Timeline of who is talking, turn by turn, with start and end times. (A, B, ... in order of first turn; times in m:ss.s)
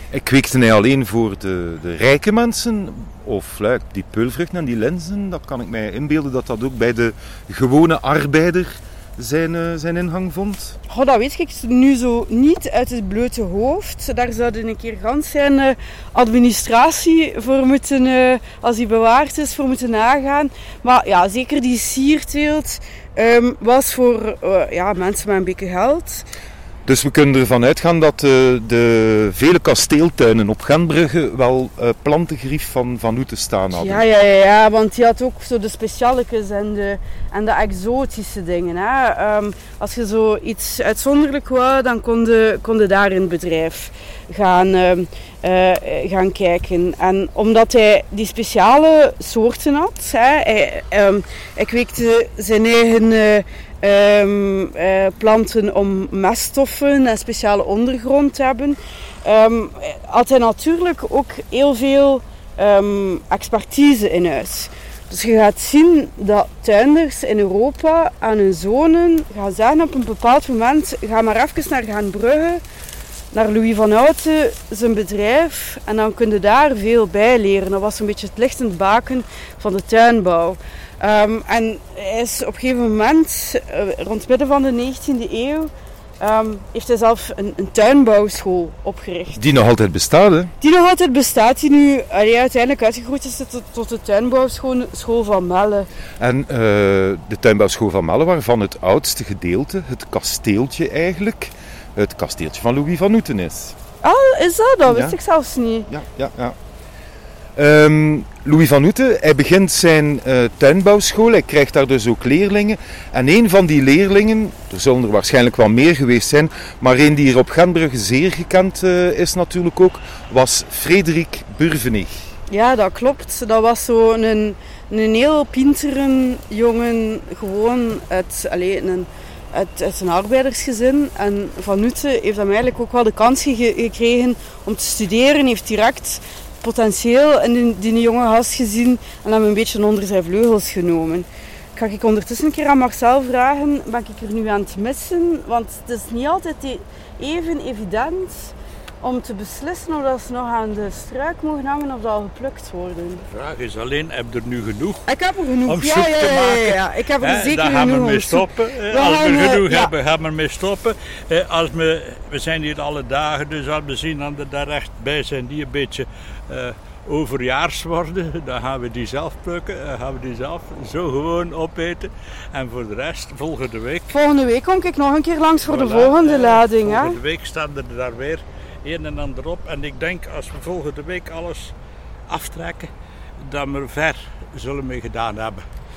0:00.1-0:10.8 A
0:10.9-0:26.2 B
0:26.8-0:34.0 A
0:33.7-1:12.6 B
1:13.3-1:29.4 B
1:29.3-1:30.5 A
1:30.6-1:35.9 B
1:36.2-1:43.7 A
1:44.0-1:45.9 B
1:44.9-1:45.2 A
1:45.9-1:46.6 A
1:47.6-2:02.1 A
2:02.5-2:33.2 B
2:33.3-2:35.1 C
2:35.1-2:39.9 B
2:35.6-2:54.1 C
2:54.1-2:57.2 B
2:55.6-3:01.7 C
3:02.3-3:02.9 C
3:03.4-3:05.6 C